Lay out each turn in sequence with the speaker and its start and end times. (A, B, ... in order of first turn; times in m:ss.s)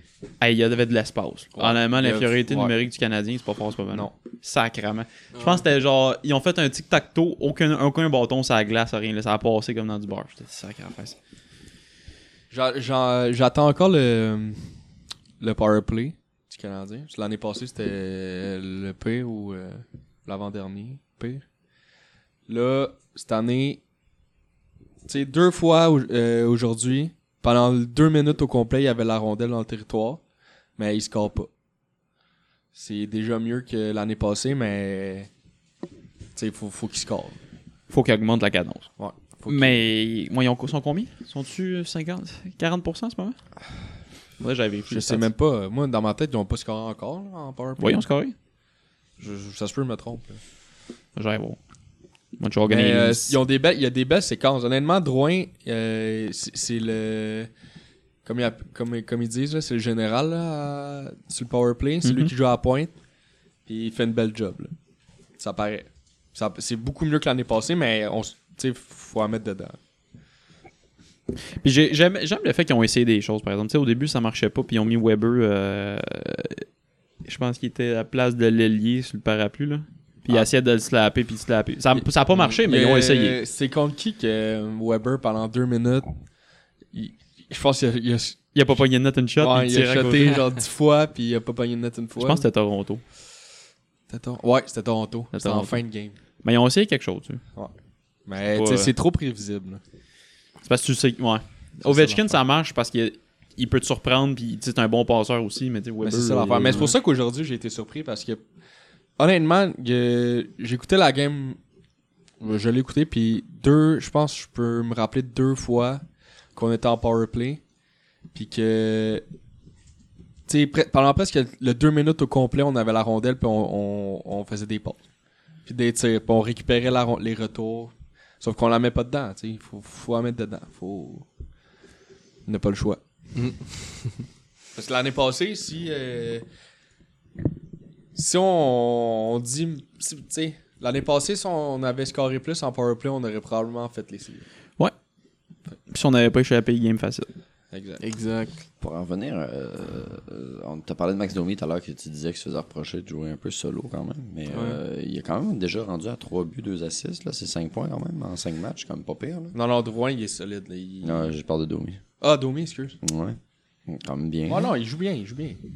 0:00.4-0:11.2 A
0:01.5-0:02.7 B
0:05.3-0:05.6 C
0:12.5-0:14.6 B
0:15.4-0:21.4 B
0:22.5-0:23.8 B
0:25.1-0:30.2 B
0:30.8-0:31.5 B
0:32.8-0:35.3 B
0:36.4-0:37.4 B
0:37.9-0:38.9 A
0:39.0-0:39.8 B
0:39.5-0:43.4 A
0:44.4-0:45.3 A
0:44.9-0:48.0 B
0:47.8-0:48.4 A
0:49.2-0:50.4 B
0:51.2-0:51.6 A
0:52.4-0:53.4 A
0:52.7-0:57.5 B
0:58.2-1:02.9 B
1:02.0-1:02.3 A
1:03.7-1:04.7 B
1:05.4-1:09.8 B
1:11.6-1:16.6 A
1:17.2-1:23.4 A
1:21.9-1:26.1 B
1:26.9-1:28.6 B
1:28.5-1:30.4 A
1:29.4-1:32.4 B
1:32.2-1:33.0 A
1:34.1-1:36.2 B
1:35.3-1:35.8 A
1:36.4-1:37.4 A
1:38.3-1:39.8 B
1:38.4-1:38.9 A
1:40.6-1:46.9 A
1:41.8-1:42.4 B
1:46.0-1:48.4 B
1:49.2-1:51.6 B
1:52.4-1:56.0 B
1:56.6-1:57.6 B
1:58.3-1:59.2 B
2:00.5-2:05.0 B
2:05.7-2:11.3 B
2:12.5-2:13.0 B
2:13.3-2:14.2 C
2:14.8-2:16.4 B
2:18.2-2:24.5 B
2:25.9-2:27.3 A
2:27.7-2:28.0 B
2:28.0-2:28.6 C
2:28.8-2:39.6 D
2:34.5-2:34.8 C
2:39.5-2:41.3 B
2:41.0-2:42.0 D
2:42.2-2:43.0 B
2:43.0-2:44.7 D
2:44.5-2:45.6 B